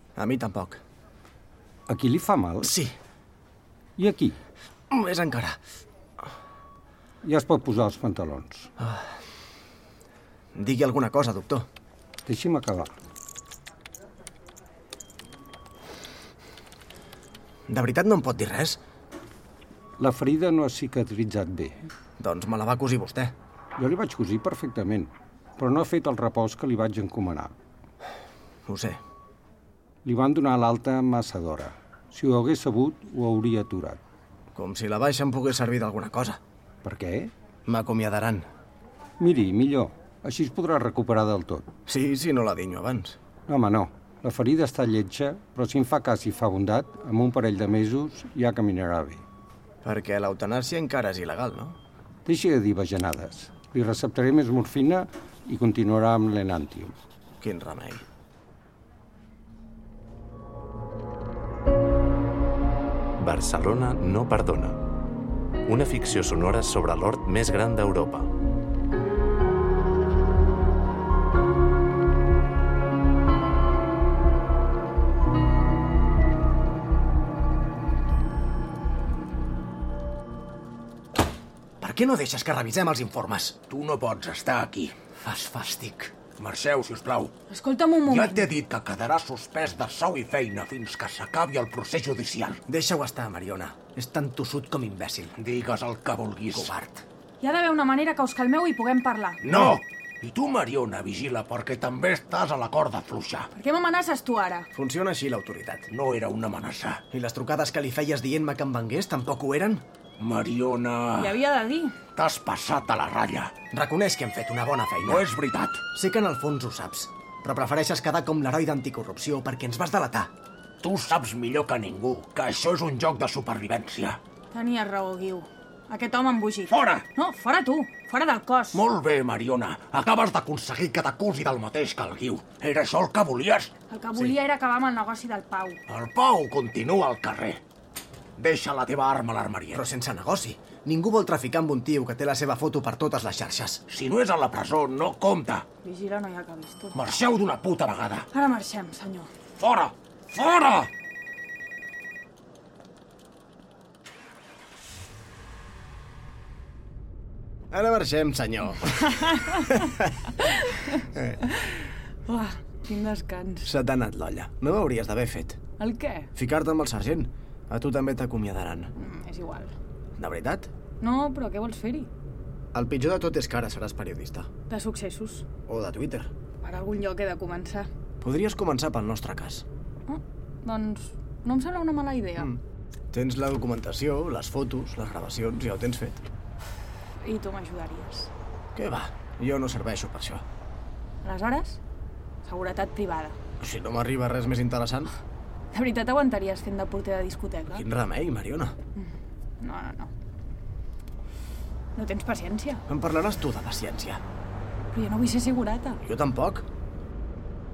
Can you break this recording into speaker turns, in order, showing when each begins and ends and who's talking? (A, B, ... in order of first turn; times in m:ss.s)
0:00.2-0:00.8 A
0:01.9-0:02.7 B
0:02.6-0:02.9 A
0:04.0-0:04.4 B
0:04.9-0:05.6 A
0:07.2-0:08.7 B
0:10.5-0:11.6 A
0:12.2-0:12.9 B
0:17.7-0:18.8 A
0:20.0-0:21.9 B
0:22.2-0:23.3 A
0:23.8-0:27.5 B
0:28.6-0:29.0 A
0:30.0-0:34.0 B
0:34.5-0:36.4 A
0:36.8-0:37.3 B
0:37.6-0:38.5 A
0:39.2-0:41.7 B
0:41.9-0:43.2 A
0:43.5-0:49.2 B
0:49.8-0:51.8 A
0:52.2-0:57.0 B
0:57.4-0:58.0 A
1:03.2-1:04.8 C
1:05.6-1:08.3 C
1:21.8-1:23.9 A
1:23.8-1:24.9 D
1:24.7-1:27.3 A
1:26.5-1:27.2 D
1:27.5-1:28.5 E
1:28.1-1:29.1 A
1:28.6-1:32.6 D
1:29.8-1:31.2 A
1:32.4-1:35.4 A
1:35.4-1:36.7 D
1:36.3-1:37.0 A
1:37.4-1:39.4 E
1:39.4-1:39.8 A
1:40.2-1:43.4 D
1:42.0-1:43.4 A
1:43.5-1:44.7 E
1:44.7-1:45.9 A
1:45.9-1:47.0 D
1:46.9-1:49.8 A
1:50.2-1:51.2 D
1:51.2-1:52.0 E
1:52.1-1:53.5 D
1:53.7-1:55.3 A
1:55.1-1:55.8 D
1:55.9-2:00.3 A
2:00.8-2:04.2 D
2:03.8-2:04.1 A
2:04.5-2:08.8 E
2:08.8-2:13.7 D
2:13.9-2:15.8 E
2:15.9-2:17.6 D
2:16.0-2:16.4 A
2:18.4-2:19.8 D
2:19.6-2:24.0 A
2:23.9-2:25.6 D
2:25.8-2:27.0 E
2:27.0-2:28.2 D
2:28.3-2:29.3 E
2:29.6-2:30.9 D
2:37.7-2:40.1 A
2:39.2-2:39.8 E
2:40.4-2:43.7 E
2:43.6-2:45.6 A
2:45.8-2:46.3 E
2:46.3-2:48.9 A
2:49.0-2:49.7 E
2:50.2-2:50.7 A
2:51.0-2:52.1 E
2:52.7-2:54.5 A
2:54.7-2:55.4 E
2:55.7-2:56.3 A
2:56.6-2:57.9 E
2:58.2-2:59.6 A
3:00.1-3:02.5 E
3:03.1-3:06.2 A
3:07.2-3:08.3 E
3:08.7-3:10.4 A
3:11.2-3:11.8 E
3:12.4-3:13.4 E
3:13.6-3:15.1 A
3:15.7-3:17.8 E
3:17.7-3:18.8 A
3:19.6-3:20.1 E
3:21.9-3:22.8 E
3:22.9-3:24.2 A
3:24.9-3:26.0 E
3:26.0-3:26.7 A